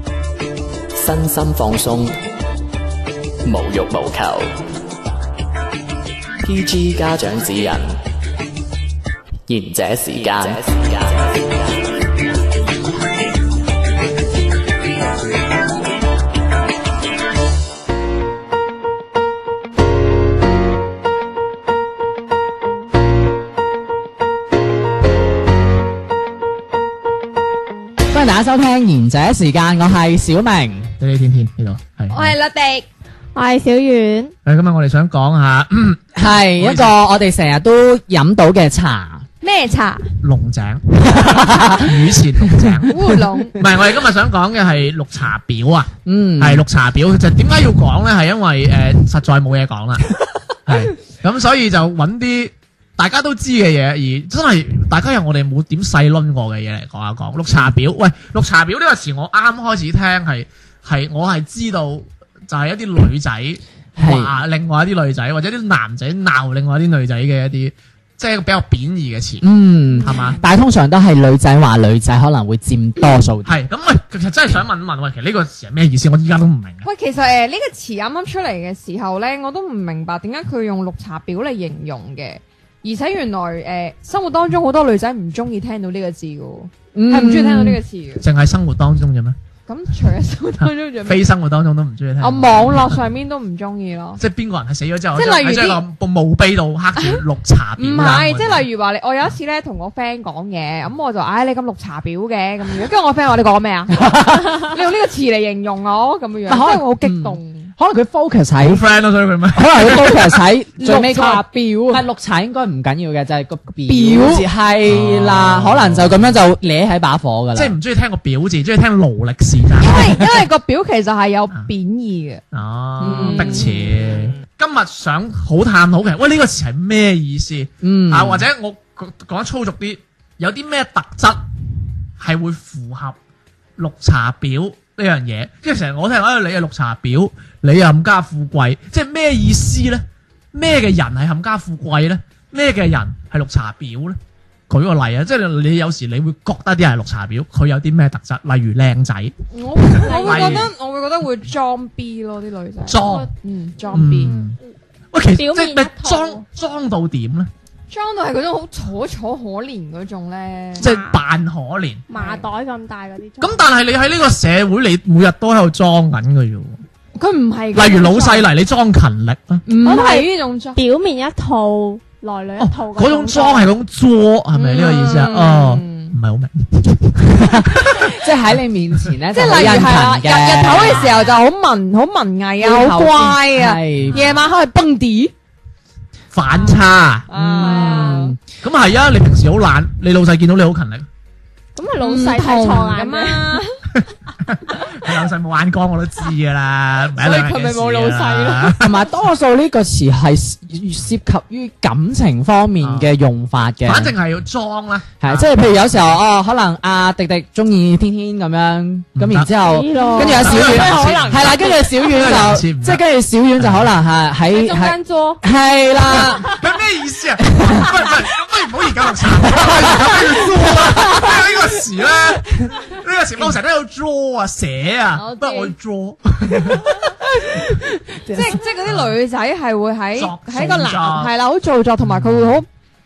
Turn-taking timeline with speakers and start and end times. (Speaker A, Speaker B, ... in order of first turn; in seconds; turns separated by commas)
Speaker A: 1.0-2.1, Speaker A: 3.5-4.5, Speaker A: 6.4-8.0, Speaker A: 9.5-11.7, Speaker B: 28.1-30.9, Speaker C: 31.0-32.4, Speaker D: 32.1-32.9, Speaker E: 33.3-34.3, Speaker C: 34.5-37.0, Speaker B: 36.2-39.2, Speaker D: 39.4-40.1, Speaker C: 40.2-43.0, Speaker B: 41.0-41.9, Speaker D: 42.9-43.6, Speaker C: 43.5-50.0, Speaker B: 46.0-46.6, Speaker C: 50.7-69.5, Speaker B: 64.0-64.3, Speaker B: 69.4-73.5, Speaker D: 69.9-70.4, Speaker C: 70.0-70.4, Speaker C: 73.4-76.9, Speaker D: 76.8-88.2, Speaker B: 86.9-87.8, Speaker C: 88.2-89.4, Speaker D: 89.7-91.3, Speaker C: 90.6-93.0, Speaker D: 92.2-94.2, Speaker C: 94.2-98.7, Speaker D: 95.2-95.8, Speaker D: 97.0-97.2, Speaker D: 97.8-107.7, Speaker B: 104.0-104.6, Speaker B: 106.5-108.8, Speaker C: 108.6-110.4, Speaker B: 109.5-117.8, Speaker D: 110.8-112.0, Speaker D: 113.9-114.5, Speaker C: 114.8-116.4, Speaker C: 117.5-120.4, Speaker D: 119.8-122.4, Speaker C: 122.5-131.4, Speaker D: 123.0-123.9, Speaker B: 123.0-123.7, Speaker B: 127.8-128.5, Speaker C: 132.2-133.2, Speaker C: 133.8-144.2, Speaker C: 144.7-150.7, Speaker D: 149.5-154.4, Speaker E: 150.0-150.7, Speaker C: 152.9-153.3, Speaker E: 153.0-153.3, Speaker E: 153.8-154.6, Speaker C: 153.9-154.6, Speaker C: 155.1-157.5, Speaker E: 155.3-156.4, Speaker D: 157.9-160.9, Speaker E: 160.8-161.2, Speaker C: 160.8-162.1, Speaker E: 162.1-163.6, Speaker D: 162.1-162.4, Speaker C: 163.4-166.8, Speaker D: 167.2-168.5, Speaker C: 167.7-169.6, Speaker D: 169.7-170.8, Speaker E: 169.8-173.7, Speaker C: 172.6-178.5, Speaker D: 174.6-176.2, Speaker B: 177.4-181.1, Speaker C: 179.0-179.8, Speaker D: 179.3-185.3, Speaker E: 180.7-181.3, Speaker B: 182.6-184.2, Speaker C: 184.0-184.4, Speaker C: 186.3-191.1, Speaker D: 187.3-188.4, Speaker B: 187.3-188.4, Speaker E: 191.8-193.6, Speaker D: 192.0-193.8, Speaker C: 194.0-199.0, Speaker D: 197.2-198.8, Speaker B: 198.8-204.1, Speaker C: 202.8-203.1, Speaker C: 203.8-205.6, Speaker B: 205.2-216.6, Speaker C: 209.2-209.6, Speaker E: 209.6-210.6, Speaker D: 210.2-211.8, Speaker C: 210.2-213.0, Speaker C: 213.6-213.9, Speaker E: 214.5-215.4, Speaker C: 216.2-227.1, Speaker B: 217.5-217.8, Speaker D: 225.1-225.7, Speaker B: 227.6-228.6, Speaker D: 228.3-232.7, Speaker C: 228.8-229.2, Speaker C: 230.2-231.3, Speaker C: 232.0-232.6